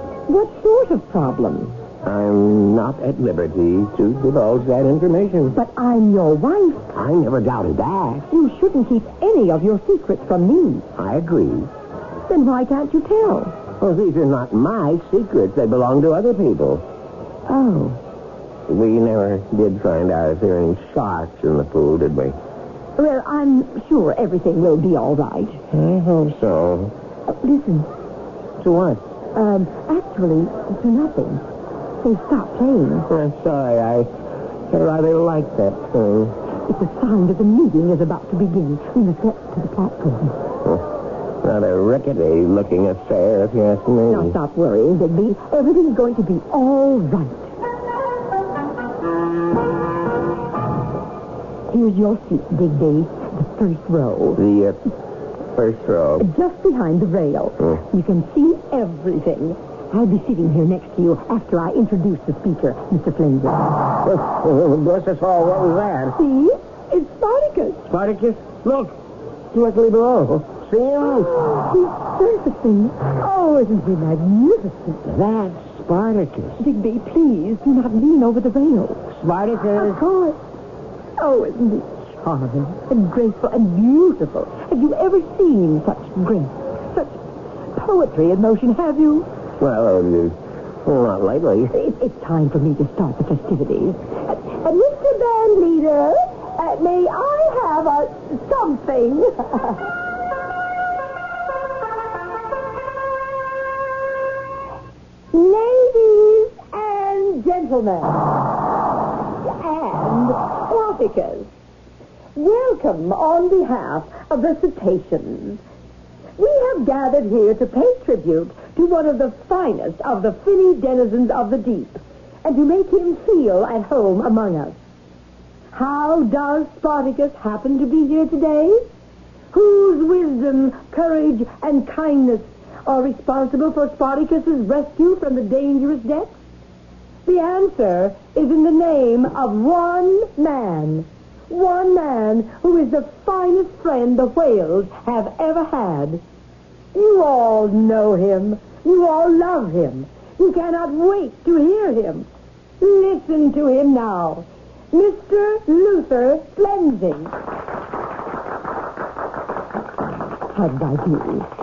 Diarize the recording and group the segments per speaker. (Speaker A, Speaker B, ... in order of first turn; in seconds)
Speaker A: 0.3-1.7, 5.6-6.9, 8.3-10.9, 12.3-13.6, 17.5-18.0, 23.0-25.6, 27.3-27.9, 29.4-31.4, 32.0-33.1, 36.7-40.4, 44.1-47.5, 51.7-54.4, 56.2-63.7, 66.1-67.8, 71.3-75.0, 76.6-79.1, 79.7-80.4, 81.2-87.2, 87.7-89.3, 91.7-99.8, 105.3-108.4, 109.4-111.5, 112.4-115.6, 116.4-124.8, 125.7-128.8, 129.5-136.3, 137.3-146.2, 146.9-152.3, 152.8-157.3, 160.5-161.5
Speaker B: 2.0-5.6, 6.9-8.3, 11.0-11.7, 13.8-16.8, 18.7-22.4, 25.7-26.9, 28.6-29.0, 33.1-34.1, 34.7-36.4, 41.4-44.4, 54.4-54.8, 55.5-56.3, 64.0-66.2, 67.9-69.0, 69.5-71.5, 75.0-76.6, 79.1-80.0, 89.6-91.7